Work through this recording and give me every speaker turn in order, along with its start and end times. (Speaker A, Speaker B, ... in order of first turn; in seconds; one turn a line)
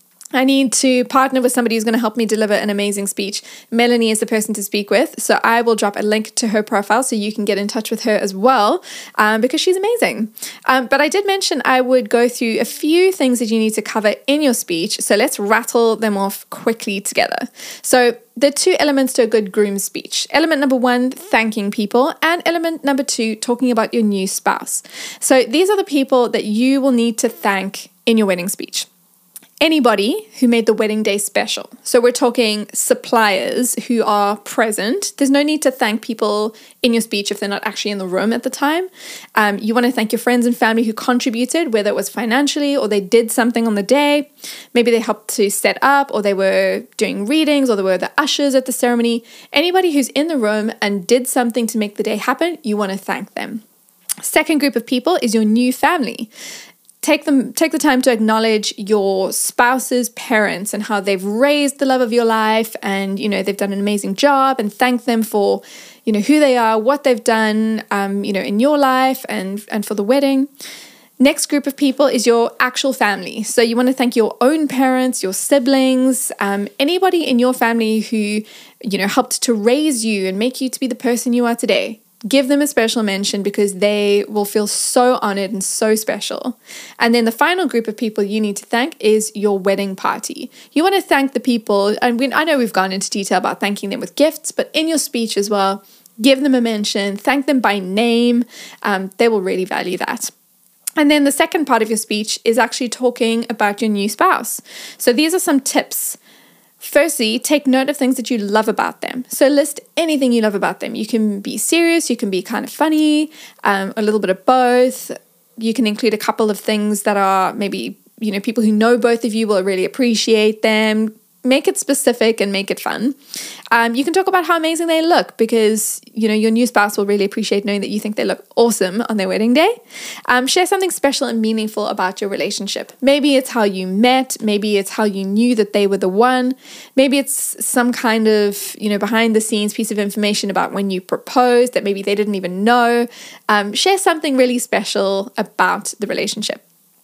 Speaker A: 0.3-28.9
Speaker A: 29.6-53.6
Speaker A: 54.2-56.3
Speaker A: 57.0-70.5
Speaker A: 71.2-100.3
Speaker A: 101.0-106.2
Speaker A: 106.8-123.2
Speaker A: 123.7-129.8
Speaker A: 130.3-146.6